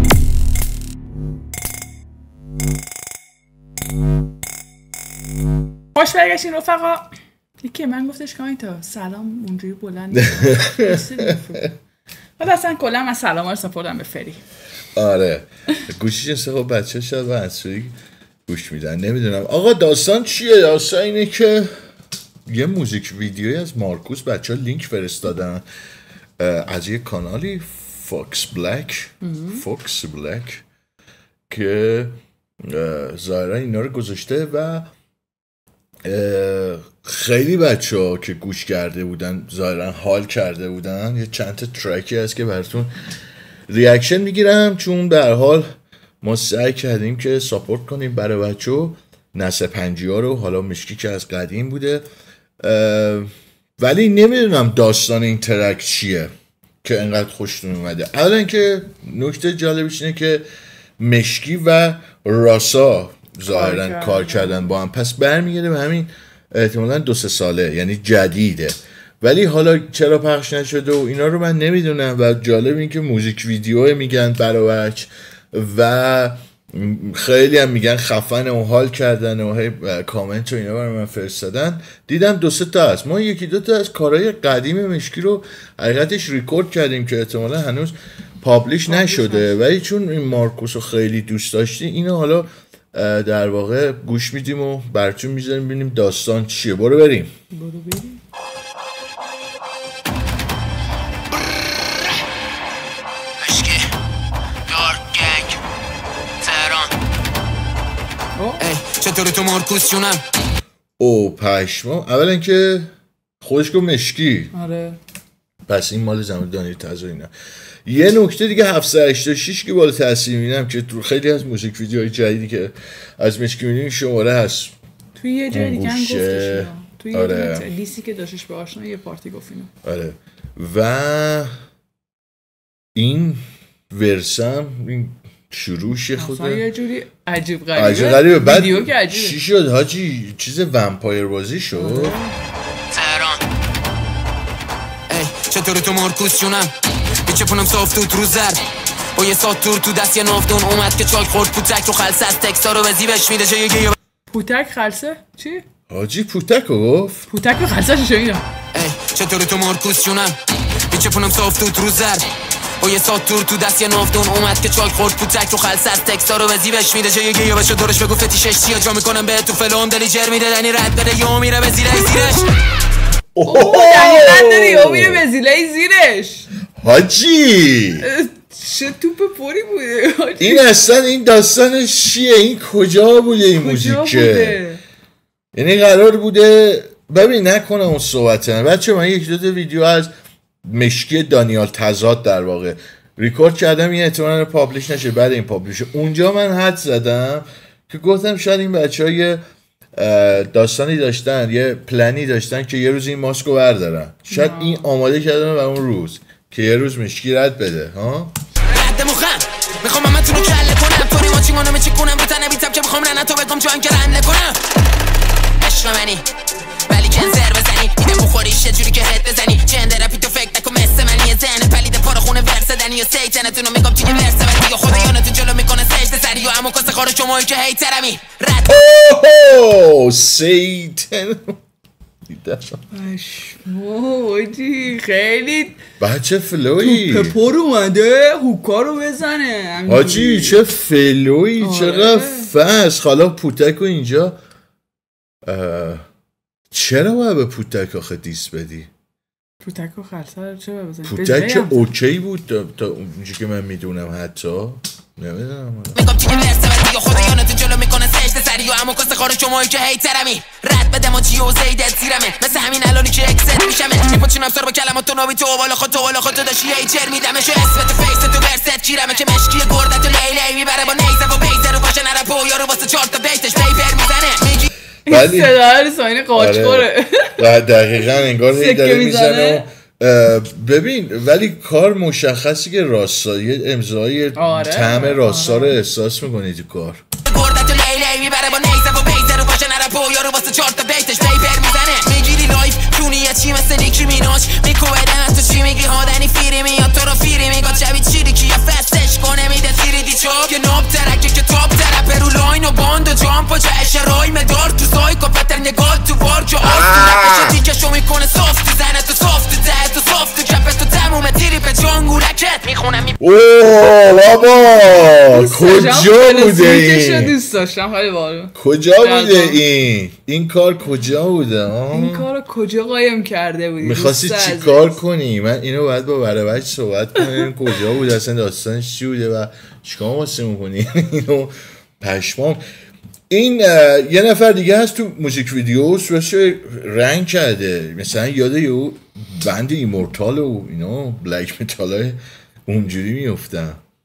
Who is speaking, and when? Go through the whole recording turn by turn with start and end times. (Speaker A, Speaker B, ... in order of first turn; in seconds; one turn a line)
Speaker A: 6.0-7.1
Speaker A: 7.6-11.7
Speaker B: 10.2-11.7
Speaker A: 12.4-14.4
Speaker B: 14.9-17.9
Speaker B: 18.5-21.7
Speaker B: 22.5-25.6
Speaker B: 26.4-30.6
Speaker A: 29.3-29.6
Speaker B: 31.5-34.9
Speaker B: 36.0-42.9
Speaker B: 43.7-45.7
Speaker B: 46.2-52.0
Speaker B: 52.6-56.3
Speaker B: 56.8-60.5
Speaker B: 61.0-97.3
Speaker A: 63.5-64.8
Speaker A: 88.9-89.5
Speaker A: 97.5-98.2
Speaker C: 103.4-103.9
Speaker C: 104.7-105.6
Speaker C: 106.4-106.9
Speaker A: 108.4-108.6
Speaker C: 108.6-110.2
Speaker B: 111.0-112.9
Speaker B: 113.4-114.5
Speaker A: 114.5-115.0
Speaker B: 115.7-117.3
Speaker B: 117.9-124.7
Speaker A: 125.2-129.7
Speaker B: 125.5-127.7
Speaker B: 129.8-131.5
Speaker B: 132.9-136.7
Speaker A: 136.2-139.4
Speaker B: 137.7-142.2
Speaker A: 141.8-142.4
Speaker C: 142.9-143.4
Speaker C: 145.1-146.7
Speaker C: 147.2-148.6
Speaker C: 149.1-153.9
Speaker A: 154.3-155.7
Speaker B: 155.9-157.3
Speaker A: 157.3-158.5
Speaker C: 158.7-160.4
Speaker C: 160.9-162.3
Speaker C: 162.8-172.5
Speaker B: 173.3-175.2
Speaker A: 173.5-176.5
Speaker B: 176.8-178.1
Speaker A: 178.0-180.8
Speaker B: 180.4-184.6
Speaker A: 183.6-184.8
Speaker B: 185.5-190.1
Speaker B: 190.6-199.4
Speaker B: 200.0-208.3
Speaker A: 204.3-204.9
Speaker C: 208.7-214.6
Speaker C: 215.6-216.3
Speaker C: 216.9-228.8
Speaker B: 228.7-231.6
Speaker B: 232.3-232.8
Speaker A: 232.9-235.8
Speaker B: 236.0-237.4
Speaker A: 236.8-240.6
Speaker B: 239.8-244.3
Speaker A: 241.6-242.5
Speaker B: 245.4-246.0
Speaker B: 246.7-248.9
Speaker A: 249.6-251.9
Speaker B: 251.1-256.0
Speaker C: 255.9-274.7
Speaker B: 275.1-275.6
Speaker A: 275.1-277.5
Speaker B: 276.4-287.0
Speaker A: 278.4-279.7
Speaker A: 284.4-285.8
Speaker C: 287.2-313.2
Speaker B: 306.6-307.6
Speaker B: 313.2-317.3
Speaker A: 315.3-319.6
Speaker B: 318.5-322.3
Speaker A: 321.9-325.0
Speaker B: 323.8-332.6
Speaker B: 333.3-343.8